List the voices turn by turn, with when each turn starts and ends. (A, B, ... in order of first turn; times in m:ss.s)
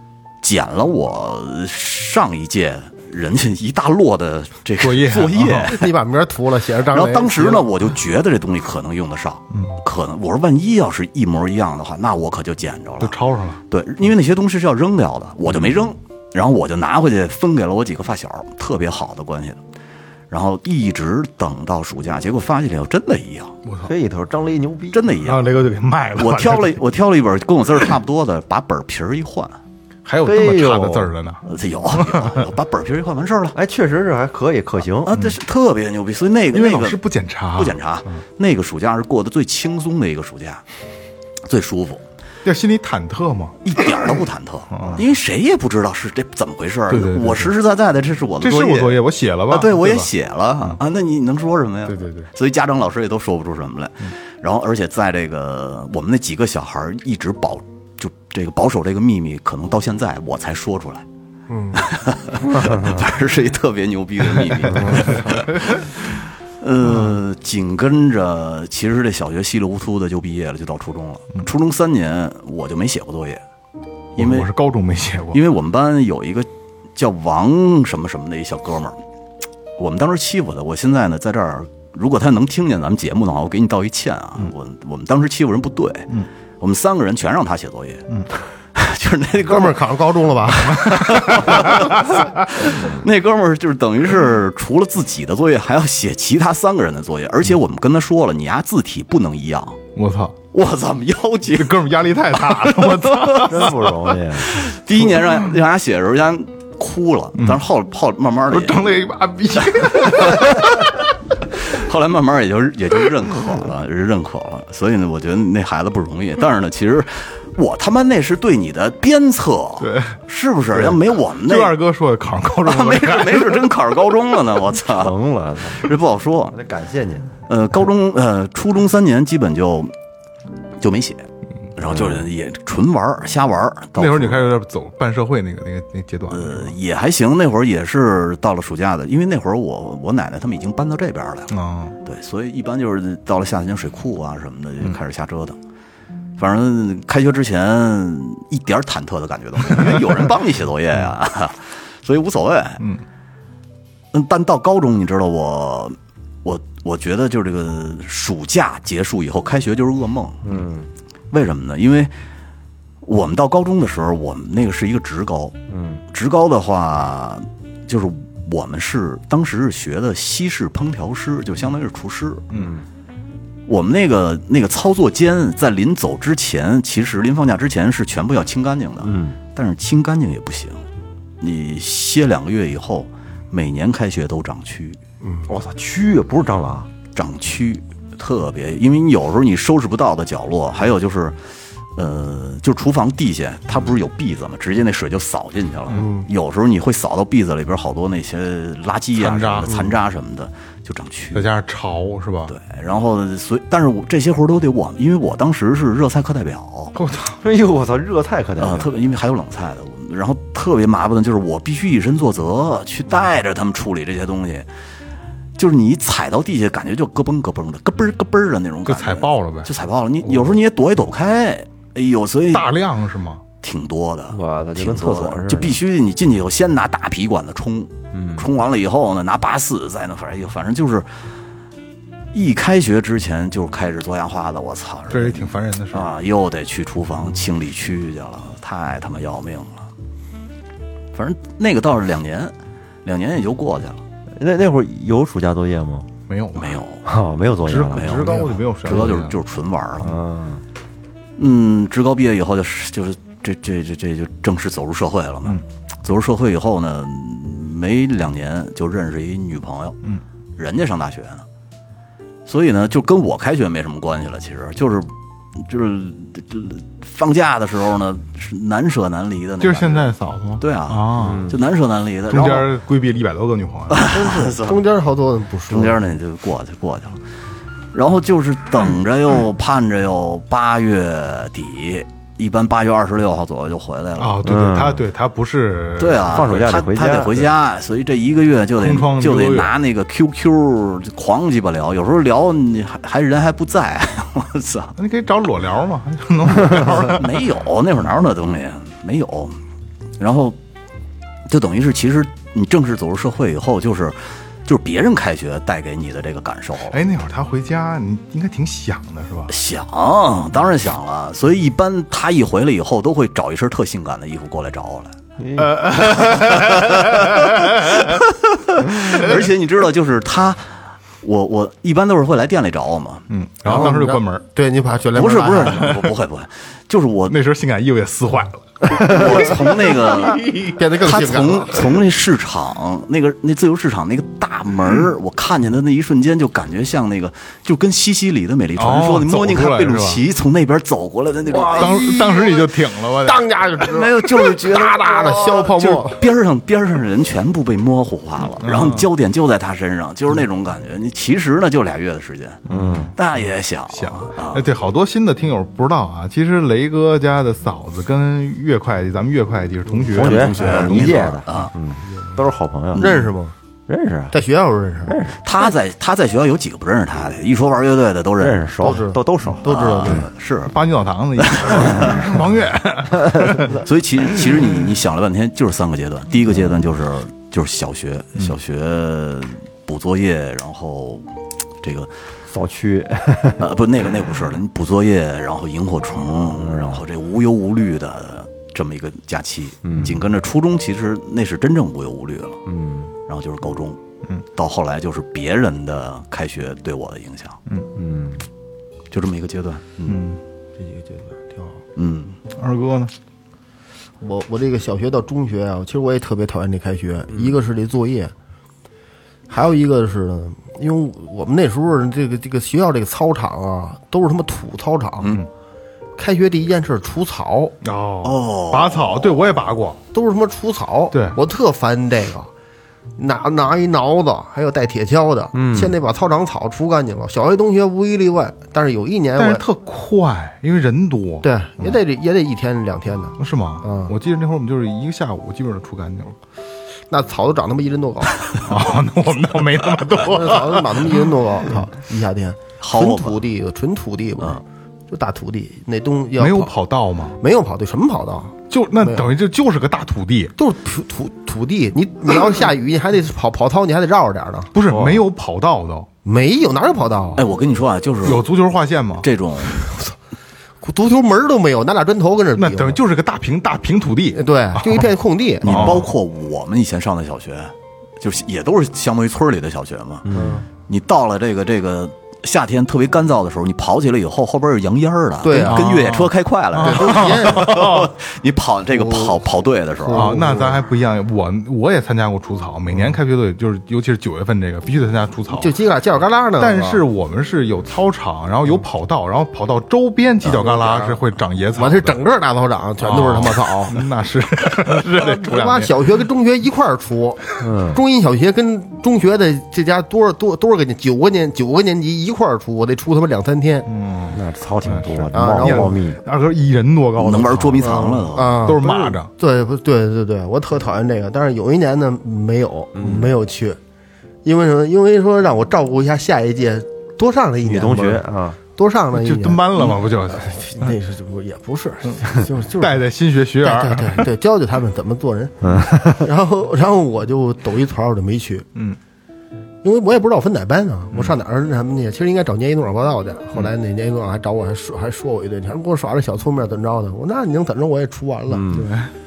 0:00.4-0:05.9 A
0:04.8-0:05.7 B
0:05.6-0:07.7 C
0:06.9-0:13.2 A
0:13.0-0:13.6 B
0:13.7-0:19.6 A
0:20.3-0:23.5 A
0:23.6-0:23.9 B
0:23.8-0:25.0 D
0:24.9-0:25.5 A
0:25.2-0:26.8 B
0:26.2-0:29.6 A
0:30.0-0:32.5 B
0:30.2-0:31.1 D
0:31.5-0:33.6 A
0:33.5-0:35.1 D
0:35.0-0:37.0 A
0:36.5-0:38.2 B
0:37.5-0:40.6 A
0:41.4-0:42.0 A
0:42.4-0:43.6 B
0:43.6-1:01.0 A
0:44.7-0:45.0 B
0:46.9-0:47.5 B
0:48.4-0:50.1 B
0:51.8-0:52.3 B
1:01.5-1:01.8 C
1:01.7-1:13.4 A
1:02.5-1:02.8 D
1:04.7-1:05.8 B
1:14.2-1:14.5 A
1:14.2-1:15.4 B
1:15.3-1:19.0 A
1:19.8-1:28.1 A
1:28.7-1:29.8 A
1:29.4-1:31.4 C
1:30.7-1:39.8 A
1:30.9-1:32.7 B
1:39.9-1:40.4 B
1:40.5-1:41.8 A
1:41.5-1:45.3 B
1:42.4-1:43.5 A
1:43.3-1:44.5 D
1:44.5-1:48.8 A
1:48.5-1:50.9 B
1:49.8-1:50.7 A
1:51.5-2:01.8 A
1:59.8-2:00.2 B
2:00.7-2:03.7 B
2:02.6-2:05.1 A
2:04.9-2:05.9 D
2:05.7-2:06.5 A
2:06.5-2:07.3 D
2:07.5-2:09.9 A
2:10.8-2:11.2 A
2:11.8-2:14.5 A
2:14.0-2:16.8 B
2:16.3-2:25.6 A
2:21.5-2:22.0 B
2:26.4-2:32.8 A
2:34.1-2:40.5 A
2:40.4-2:40.9 D
2:41.3-2:42.1 A
2:43.0-2:45.5 A
2:45.7-2:46.0 D
2:46.1-2:52.4 A
2:52.5-2:52.8 D
2:53.7-3:00.8 A
2:59.0-2:59.4 D
3:01.4-3:05.0 A
3:05.2-3:05.5 C
3:05.5-3:06.9 D
3:07.1-3:11.4 A
3:12.0-3:21.5 A
3:15.9-3:16.3 C
3:19.2-3:19.8 B
3:21.3-3:22.5 B
3:22.5-3:26.9 A
3:26.9-3:27.4 B
3:27.4-3:28.9 D
3:28.6-3:34.7 A
3:35.6-3:42.7 A
3:38.8-3:39.7 B
3:42.5-3:43.4 B
3:43.6-3:51.1 A
3:44.3-3:45.8 D
3:48.1-3:48.5 D
3:52.3-3:59.9 A
3:55.1-3:56.1 B
4:01.1-4:02.5 A
4:03.0-4:04.0 A
4:04.4-4:06.1 D
4:06.3-4:06.8 B
4:06.6-4:07.0 A
4:07.0-4:08.5 D
4:07.6-4:09.4 B
4:07.9-4:10.1 A
4:10.0-4:10.6 D
4:11.4-4:20.0 A
4:20.6-4:21.4 A
4:22.4-4:32.7 A
4:29.6-4:31.5 B
4:31.2-4:31.6 D
4:32.3-4:34.0 B
4:33.9-4:34.8 A
4:34.1-4:36.0 C
4:35.7-4:37.2 A
4:37.9-4:44.4 A
4:44.2-4:46.5 B
4:44.4-4:45.0 D
4:46.0-4:54.9 A
4:46.2-4:47.5 D
4:48.8-4:49.7 B
4:55.0-4:57.4 B
4:56.7-4:59.6 A
5:00.2-5:00.6 A
5:01.5-5:07.0 A
5:06.9-5:09.5 B
5:09.5-5:15.1 A
5:15.4-5:15.8 D
5:15.6-5:18.1 B
5:15.9-5:23.8 A
5:18.9-5:19.4 B
5:23.3-5:24.4 B
5:23.6-5:26.0 C
5:25.1-5:27.4 A
5:25.8-5:26.1 B
5:27.3-5:30.0 B
5:28.9-5:42.0 A
5:30.3-5:31.9 C
5:38.8-5:40.2 B
5:41.5-5:46.2 C
5:41.7-5:43.5 B
5:43.8-5:52.6 A
5:48.6-5:49.1 B
5:52.7-5:53.1 B
5:52.7-5:53.1 D
5:53.2-5:54.7 A
5:53.9-6:01.4 B
6:00.1-6:01.7 A
6:00.1-6:03.2 D
6:02.9-6:03.3 A
6:03.0-6:03.5 C
6:03.9-6:04.3 D
6:04.3-6:05.2 C
6:05.1-6:05.4 D
6:05.4-6:08.7 A
6:08.4-6:10.3 D
6:08.8-6:10.3 C
6:09.6-6:10.7 A
6:10.6-6:13.8 B
6:11.4-6:12.3 A
6:13.7-6:21.3 A
6:16.5-6:16.7 D
6:21.8-6:22.1 A
6:22.5-6:23.7 D
6:23.6-6:32.6 A
6:26.6-6:27.0 D
6:29.8-6:30.2 D
6:32.6-6:33.1 D
6:33.3-6:34.0 A
6:34.5-6:37.6 A
6:37.9-6:38.4 D
6:39.1-6:40.2 A
6:40.1-6:40.4 B
6:40.8-6:41.8 C
6:42.0-6:42.4 A
6:42.5-6:43.1 B
6:44.2-6:48.3 C
6:49.5-6:55.4 C
6:56.2-6:57.7 C
6:57.8-7:00.0 B
6:58.2-6:59.4 A
7:00.1-7:02.5 C
7:01.1-7:01.4 B
7:03.2-7:09.6 C
7:05.5-7:06.0 D
7:09.4-7:12.0 B
7:11.4-7:14.1 C
7:13.4-7:16.4 B
7:17.1-7:18.7 C
7:18.6-7:21.3 B
7:20.1-7:26.7 C
7:22.8-7:23.4 A
7:26.4-7:27.4 B
7:27.4-7:29.3 C
7:28.7-7:30.5 B
7:30.6-7:34.7 C
7:34.7-7:36.1 B
7:34.9-7:35.2 D
7:36.2-7:37.4 C
7:37.4-7:38.4 A
7:38.2-7:39.3 B
7:39.2-7:39.9 A
7:39.8-7:40.1 C
7:40.8-7:43.0 C
7:42.6-7:45.1 B
7:44.3-7:46.0 C
7:45.6-7:46.1 B
7:45.6-7:50.2 A
7:50.2-7:50.6 D
7:50.3-7:50.7 C
7:50.9-8:00.4 A
7:55.4-7:55.9 C
7:55.6-7:58.1 B
7:56.8-7:57.9 C
7:58.9-7:59.4 C
8:00.0-8:00.8 C
8:00.1-8:05.7 B
8:05.5-8:07.0 C
8:06.6-8:12.2 B
8:10.5-8:11.2 C
8:11.8-8:14.0 C
8:13.0-8:15.9 B
8:15.2-8:23.9 C
8:17.6-8:18.0 D
8:23.9-8:29.3 B
8:24.3-8:26.2 D
8:25.3-8:26.0 C
8:27.2-8:28.6 A
8:27.8-8:33.8 C
8:32.9-8:33.3 D
8:34.4-8:43.0 C
8:37.6-8:38.6 D
8:39.1-8:40.9 B
8:42.8-8:44.3 B
8:43.6-8:48.7 C
8:45.6-8:46.3 D
8:49.8-8:58.8 C
8:58.5-8:58.9 D
8:58.7-8:59.1 B